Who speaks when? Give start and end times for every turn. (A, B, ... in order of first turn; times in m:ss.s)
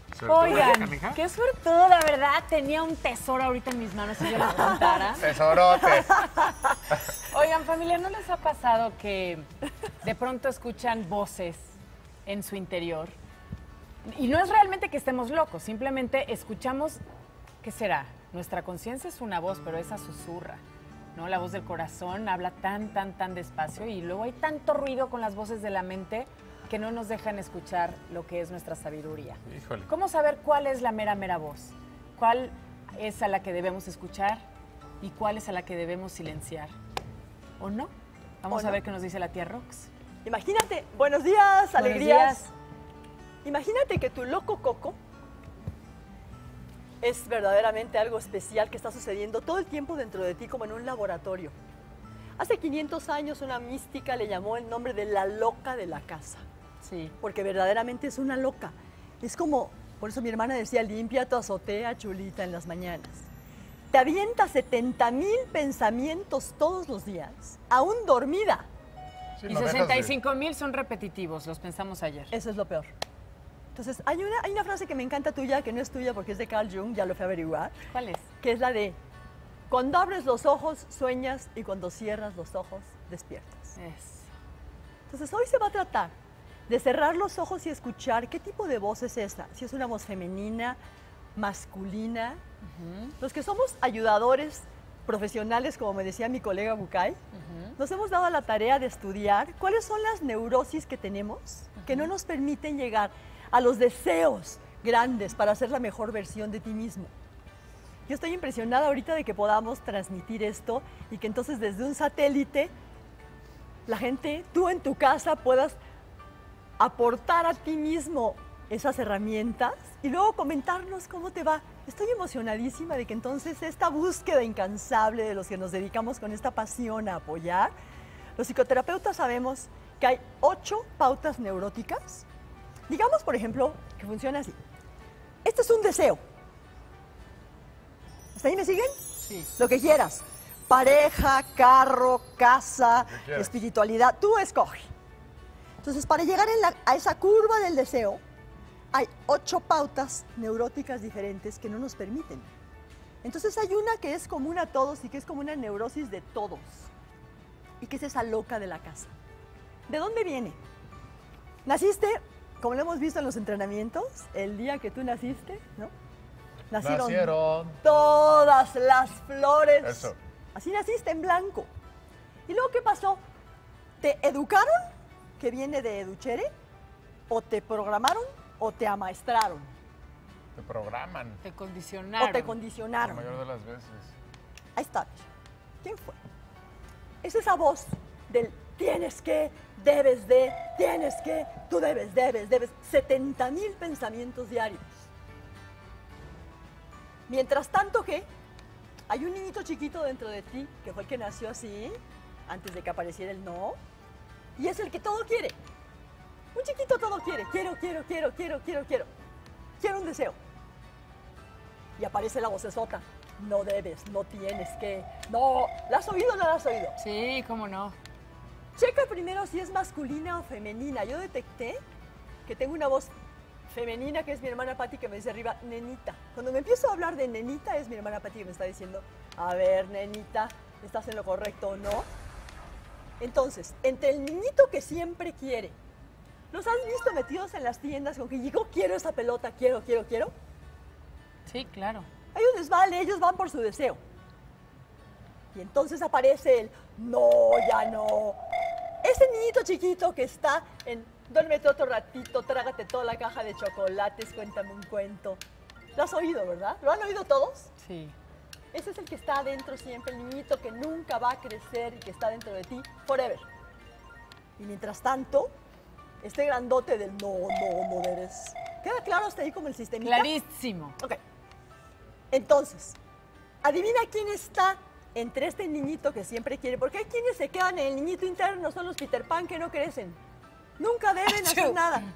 0:00.1-0:01.2 A
0:00.2-0:05.4 B
0:04.4-0:06.8 C
0:05.2-0:06.2 A
0:07.2-0:09.5 B
0:10.0-0:13.1 B
0:14.0-0:17.0 B
0:17.6-0:20.6 B
0:21.1-0:34.4 B
0:29.4-0:29.9 A
0:35.0-0:36.7 B
0:37.6-0:37.9 B
0:38.4-0:39.9 B
0:38.5-0:38.8 C
0:40.2-0:42.5 C
0:41.8-0:42.5 B
0:43.4-0:45.0 C
0:47.0-0:51.5 C
0:52.4-0:56.4 C
0:56.8-0:57.1 B
0:57.2-1:03.3 C
1:03.9-1:08.6 C
1:09.4-1:10.1 A
1:09.5-1:12.3 B
1:12.3-1:12.9 C
1:13.7-1:17.8 C
1:17.9-1:18.3 B
1:18.4-1:19.0 C
1:19.7-1:23.8 C
1:23.8-1:24.3 B
1:25.1-1:26.1 C
1:26.7-1:30.8 C
1:31.4-1:32.4 C
1:32.6-1:33.1 B
1:33.2-1:37.2 C
1:37.3-1:37.8 B
1:37.8-1:47.1 C
1:41.8-1:42.1 B
1:48.1-1:52.7 C
1:53.9-1:55.8 C
1:56.8-2:07.7 C
2:08.4-2:12.2 C
2:12.9-2:14.6 C
2:15.4-2:16.2 C
2:18.3-2:24.9 C
2:19.2-2:19.5 B
2:23.1-2:23.6 A
2:25.8-2:28.2 C
2:28.9-2:32.5 C
2:33.2-2:36.9 C
2:37.8-2:39.1 C
2:39.9-2:40.6 C
2:41.6-2:45.9 C
2:46.7-2:51.7 C
2:46.8-2:47.8 A
2:49.8-2:50.2 A
2:52.5-2:53.2 C
2:54.0-2:54.8 C
2:55.4-2:56.5 C
2:57.3-2:59.7 C
3:00.5-3:01.4 A
3:01.4-3:02.6 B
3:02.2-3:03.3 C
3:03.0-3:04.1 A
3:04.8-3:05.3 C
3:05.8-3:06.2 C
3:07.2-3:15.0 C
3:17.3-3:18.3 C
3:19.1-3:23.8 C
3:24.6-3:25.6 C
3:26.5-3:29.1 C
3:29.8-3:30.4 C
3:32.0-3:37.0 C
3:37.0-3:38.0 B
3:38.8-3:41.8 C
3:42.4-3:43.1 C
3:43.7-3:52.1 C
3:53.2-3:55.8 C
3:56.5-4:00.3 C
4:01.4-4:02.1 B
4:02.3-4:04.0 C
4:05.5-4:08.4 C
4:09.0-4:15.4 C
4:16.0-4:17.7 C
4:17.8-4:18.2 B
4:18.7-4:23.4 C
4:24.6-4:25.5 C
4:26.2-4:30.3 C
4:30.0-4:31.0 B
4:32.3-4:33.0 C
4:33.6-4:40.2 C
4:40.8-4:42.1 C
4:41.3-4:41.8 B